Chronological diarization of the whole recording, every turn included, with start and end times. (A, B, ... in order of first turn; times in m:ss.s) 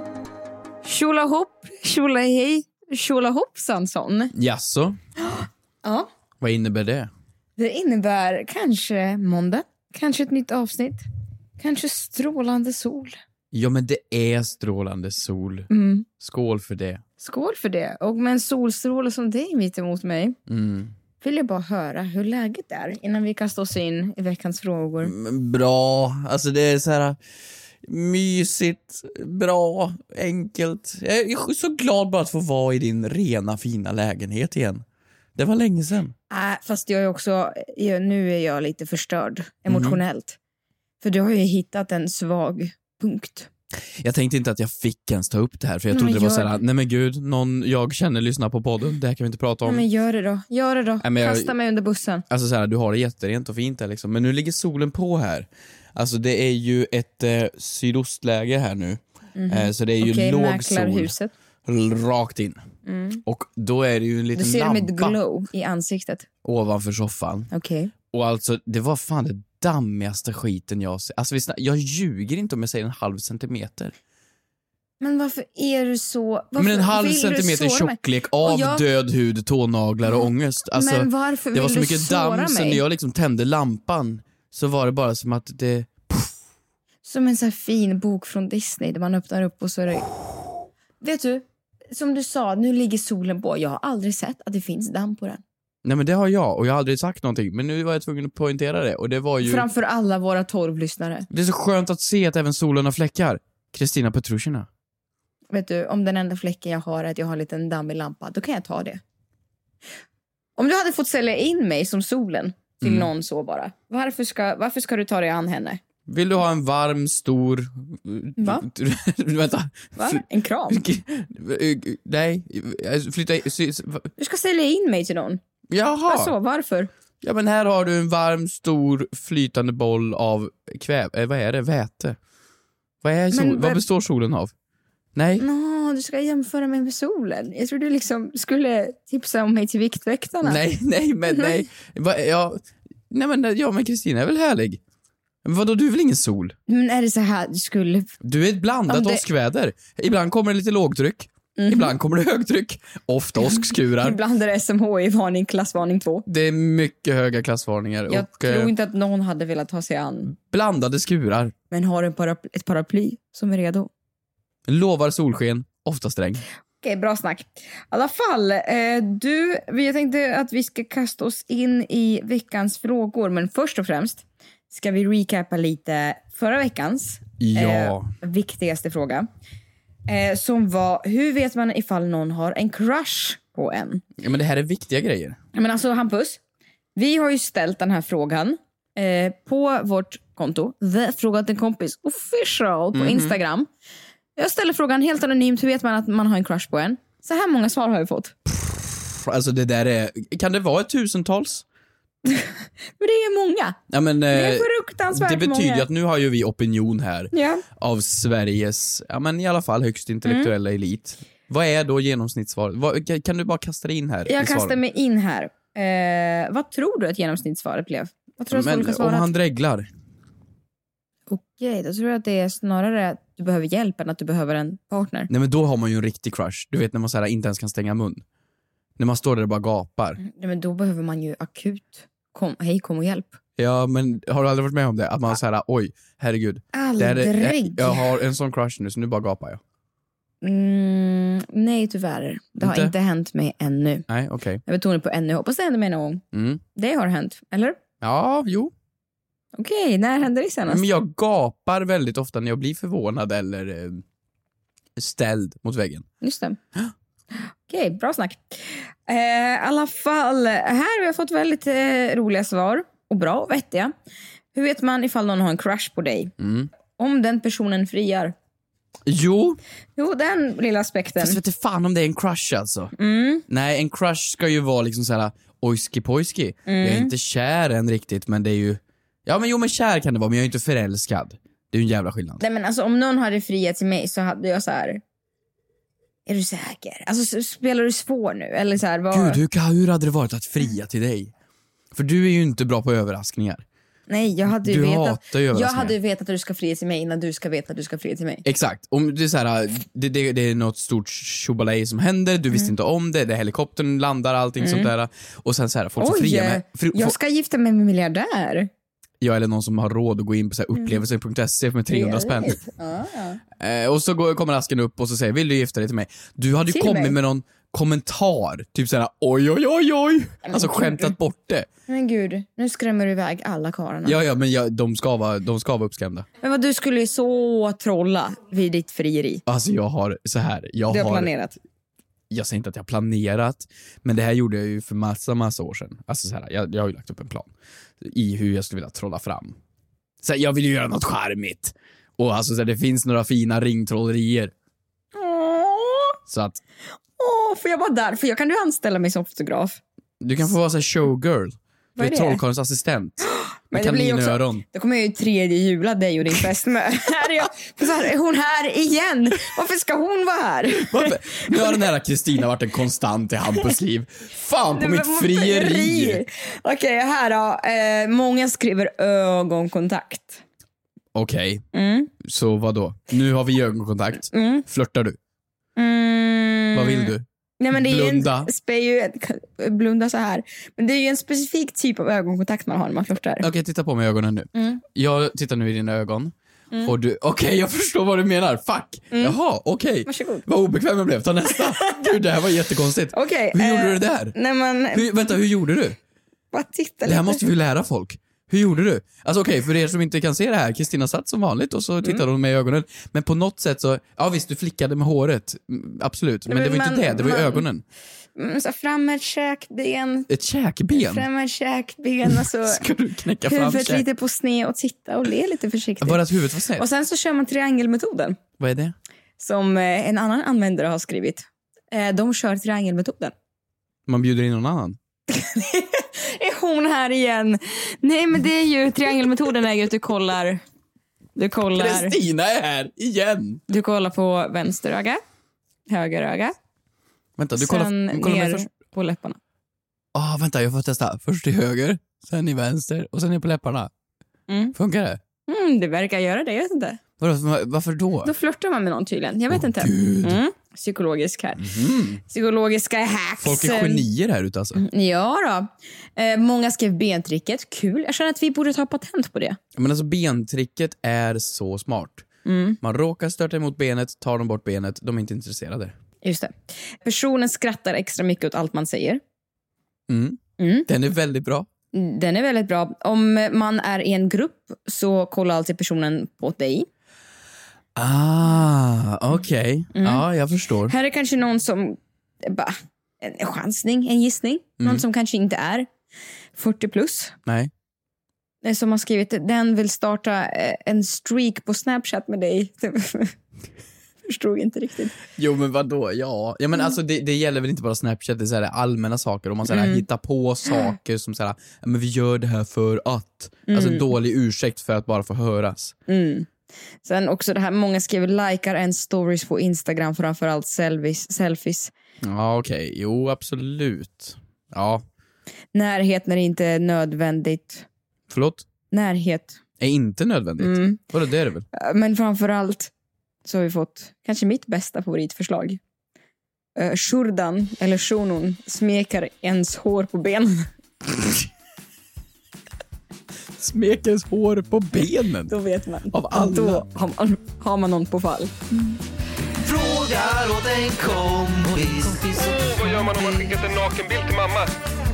0:00.8-0:04.3 A
0:04.3-0:05.0 B
0:05.2-0:06.1 A
0:06.4-0:07.1 B
0:07.6-0:11.0 A
0:11.6-0:13.2 A
0:13.5-0:17.0 B
0:15.7-0:16.1 A
0:17.2-0:20.4 A
0:20.5-0:20.9 B
0:21.2-0:25.1 A
0:25.0-0:27.2 B
0:27.8-0:34.8 B
0:35.4-0:36.1 B
0:36.3-0:40.4 A
0:39.7-0:40.0 B
0:41.0-0:43.5 A
0:44.0-0:49.8 B
0:45.9-0:46.6 A
0:49.6-0:52.2 A
0:51.0-0:51.5 B
0:52.3-1:01.2 B
0:59.4-1:01.3 A
1:01.7-1:02.6 B
1:02.8-1:03.2 A
1:03.3-1:05.2 B
1:04.4-1:06.3 A
1:06.4-1:07.5 B
1:07.5-1:07.9 A
1:08.1-1:14.0 B
1:15.0-1:18.8 A
1:16.6-1:26.3 B
1:20.7-1:22.8 A
1:27.0-1:30.1 A
1:31.0-1:35.4 A
1:35.8-1:39.7 B
1:39.4-1:41.3 A
1:41.3-1:44.7 B
1:45.5-1:49.0 A
1:50.6-1:55.8 A
1:52.8-1:53.1 B
1:56.1-2:04.1 B
1:58.4-1:58.7 A
2:00.0-2:00.8 A
2:04.2-2:05.4 A
2:05.7-2:06.3 B
2:06.1-2:06.9 A
2:07.2-2:12.2 B
2:13.0-2:14.5 B
2:13.3-2:13.8 A
2:15.2-2:15.5 B
2:15.4-2:20.6 A
2:20.4-2:24.8 B
2:25.4-2:26.6 B
2:26.7-2:28.1 A
2:28.2-2:34.2 B
2:28.9-2:29.2 A
2:31.6-2:32.0 A
2:34.0-2:36.2 A
2:36.3-2:38.7 B
2:38.1-2:40.3 A
2:40.3-2:41.5 B
2:41.7-2:43.9 A
2:44.7-2:46.4 B
2:46.8-2:59.3 A
2:57.4-2:58.1 B
3:00.1-3:04.0 A
3:04.2-3:05.4 B
3:05.6-3:06.4 A
3:07.0-3:13.7 A
3:12.9-3:13.4 B
3:14.4-3:18.4 A
3:18.5-3:21.6 B
3:22.2-3:23.8 A
3:23.9-3:34.8 B
3:24.3-3:25.9 A
3:27.3-3:27.6 A
3:30.2-3:30.5 A
3:34.3-3:39.3 A
3:38.5-3:39.9 B
3:41.3-3:45.3 A
3:45.3-3:48.2 B
3:49.0-3:50.2 B
3:50.2-3:53.4 A
3:53.6-3:59.6 B
3:56.7-3:58.1 A
4:00.4-4:04.1 A
4:02.6-4:02.9 B
4:04.1-4:04.6 B
4:04.7-4:06.2 A
4:06.3-4:06.6 B
4:06.8-4:07.8 A
4:08.0-4:08.7 B
4:09.6-4:10.8 A
4:10.7-4:14.0 B
4:15.0-4:16.1 B
4:16.2-4:16.6 A
4:17.7-4:23.9 A
4:24.5-4:26.3 A
4:26.4-4:26.7 B
4:27.0-4:28.4 A
4:29.1-4:29.6 B
4:30.0-4:31.4 A
4:31.2-4:32.9 B
4:33.0-4:33.4 A
4:33.5-4:42.4 B
4:36.7-4:37.1 A
4:42.4-4:45.0 A
4:46.3-4:49.4 A
4:49.1-4:51.3 B
4:51.9-4:53.6 B
4:54.1-4:58.4 A
4:54.5-4:56.0 B
4:58.4-5:07.2 B
5:04.6-5:04.9 A
5:06.0-5:08.7 A
5:09.2-5:12.6 B
5:10.8-5:11.0 A
5:11.9-5:13.4 A
5:13.6-5:21.7 B
5:16.7-5:17.2 A
5:20.5-5:21.1 A
5:21.9-5:24.2 A
5:24.0-5:26.3 B
5:26.4-5:29.4 A
5:29.5-5:31.3 B
5:30.9-5:31.6 A
5:32.3-5:39.6 B
5:40.2-5:44.5 B
5:45.1-5:46.2 A
5:46.3-5:46.6 B
5:47.2-5:49.8 A
5:50.2-5:54.6 B
5:52.0-5:52.4 A
5:53.2-6:01.8 A
6:00.8-6:06.2 B
6:04.7-6:10.4 A
6:11.1-6:11.6 B
6:11.7-6:12.1 A
6:12.2-6:15.2 B
6:14.3-6:14.6 A
6:15.8-6:23.5 A
6:16.7-6:18.5 B
6:23.4-6:34.4 B
6:24.6-6:24.8 A
6:29.1-6:29.4 A
6:30.1-6:30.4 A
6:31.5-6:32.1 A
6:33.1-6:35.1 A
6:34.9-6:36.0 B
6:36.5-6:37.4 A
6:37.0-6:47.8 B
6:46.5-6:47.6 A
6:48.4-6:50.3 A
6:50.3-6:51.3 B
6:50.9-6:52.9 A
6:52.3-6:54.1 B
6:53.4-6:56.2 A
6:56.0-6:56.9 B
6:56.8-6:58.4 A
6:58.6-6:59.0 B
6:59.4-7:03.3 A
7:04.1-7:05.0 B
7:05.3-7:10.6 A
7:11.4-7:12.2 A
7:11.6-7:13.6 B
7:13.7-7:15.2 A
7:15.9-7:16.6 A
7:17.4-7:18.7 B
7:17.6-7:19.4 A
7:20.1-7:23.9 B
7:24.5-7:24.7 A
7:24.7-7:25.2 B
7:25.5-7:27.0 A
7:27.2-7:28.3 B
7:28.2-7:31.7 A
7:29.5-7:30.4 B
7:31.6-7:32.2 B
7:32.2-7:34.1 A
7:33.4-7:34.8 B
7:34.8-7:39.6 A
7:39.8-7:42.2 B
7:42.4-7:42.8 A
7:42.8-7:46.0 B
7:46.2-7:49.2 A
7:50.1-7:51.7 B
7:50.6-7:50.9 A
7:51.9-7:56.9 A
7:58.0-8:00.9 B
8:00.0-8:00.2 A
8:00.9-8:05.9 A
8:04.8-8:05.0 B
8:06.6-8:07.4 A
8:07.5-8:07.7 B
8:08.6-8:13.4 A
8:14.2-8:15.2 A
8:15.4-8:26.0 B
8:19.7-8:20.0 A
8:23.7-8:24.1 A
8:26.1-8:26.5 A
8:27.0-8:31.9 A
8:32.2-8:35.0 B
8:35.7-8:37.9 A
8:38.3-8:38.7 B
8:38.9-8:39.6 A
8:39.8-8:41.7 B
8:40.6-8:41.0 A
8:41.7-8:42.9 A
8:43.4-8:45.8 A
8:46.8-8:50.7 A
8:53.6-8:55.5 B
8:55.5-8:58.5 A
8:56.1-8:56.8 B
8:59.6-9:03.6 C
9:02.4-9:04.7 D